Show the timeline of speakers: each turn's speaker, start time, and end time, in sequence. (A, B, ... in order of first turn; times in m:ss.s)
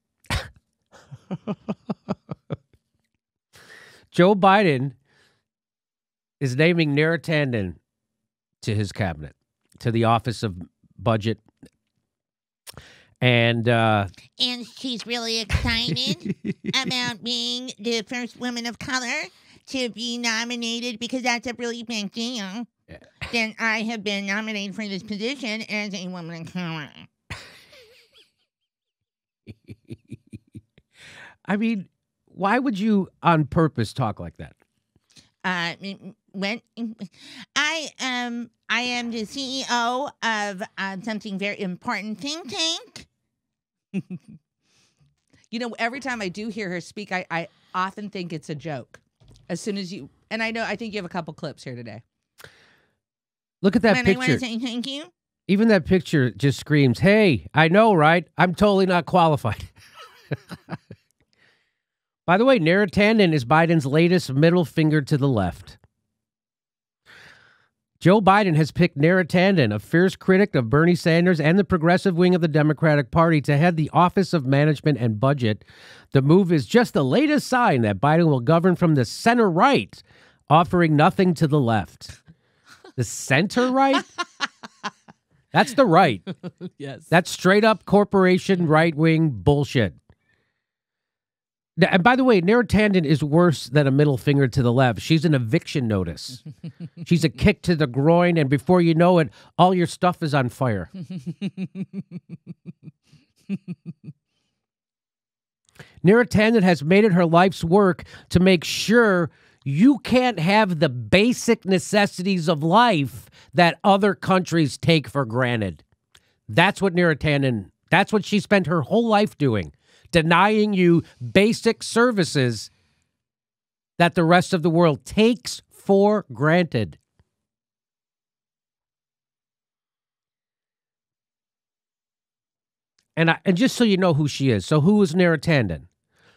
0:04.1-0:04.9 A
0:06.4-0:07.8 A
0:08.6-0:11.4 A
0:13.2-0:14.1 A
0:14.4-0:22.7 B
0:23.3-0:27.1 B
0:31.5-0:34.5 A
0:35.4-0:43.1 B
0:45.5-0:52.0 C
0:53.6-0:54.4 A
0:53.9-0:55.1 B
0:55.5-0:59.7 A
1:02.3-1:05.8 A
1:08.0-1:22.1 A
1:23.0-1:24.0 A
1:25.5-1:26.2 A
1:27.1-1:30.0 A
1:31.8-1:36.4 A
1:37.0-1:40.9 A
1:46.0-1:55.8 A
1:56.5-2:02.7 A
2:04.0-2:07.0 A
2:13.2-2:15.8 A